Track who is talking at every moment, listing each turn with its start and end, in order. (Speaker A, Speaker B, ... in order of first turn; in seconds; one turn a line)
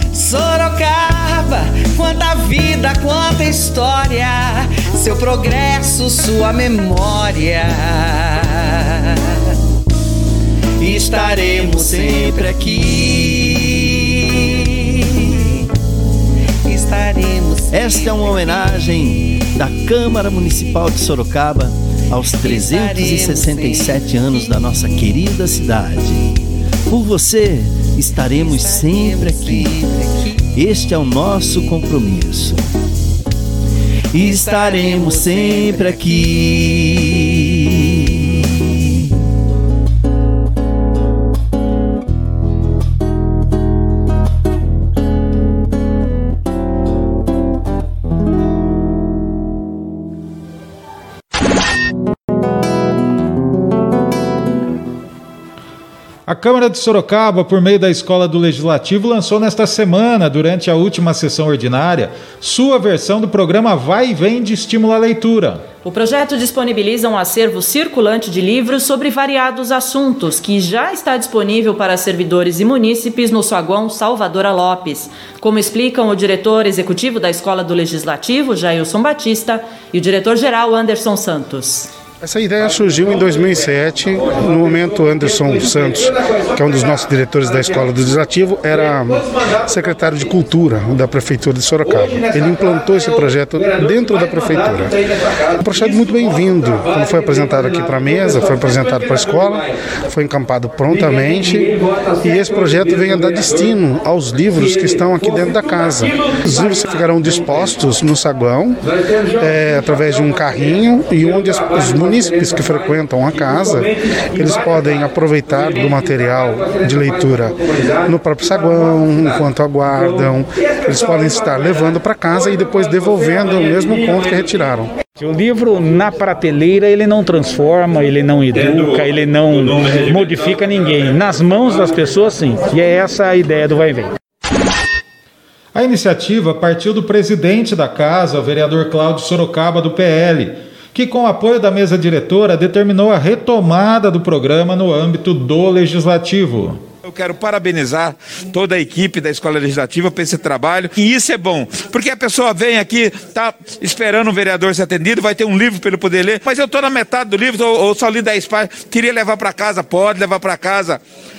Speaker A: 0.1-9.2
Speaker A: 10.8-13.3
Speaker B: 10.8-14.0
Speaker A: 16.7-18.8
Speaker B: 17.7-26.3
Speaker A: 22.4-24.6
Speaker B: 26.9-29.8
Speaker A: 28.1-30.5
Speaker B: 30.6-32.7
Speaker B: 34.1-37.3
Speaker A: 34.2-36.4
Speaker C: 56.3-65.7
Speaker D: 65.8-81.9
Speaker E: 82.2-125.0
Speaker F: 125.2-134.2
Speaker G: 128.5-130.9
Speaker C: 135.7-146.8
Speaker G: 147.0-161.0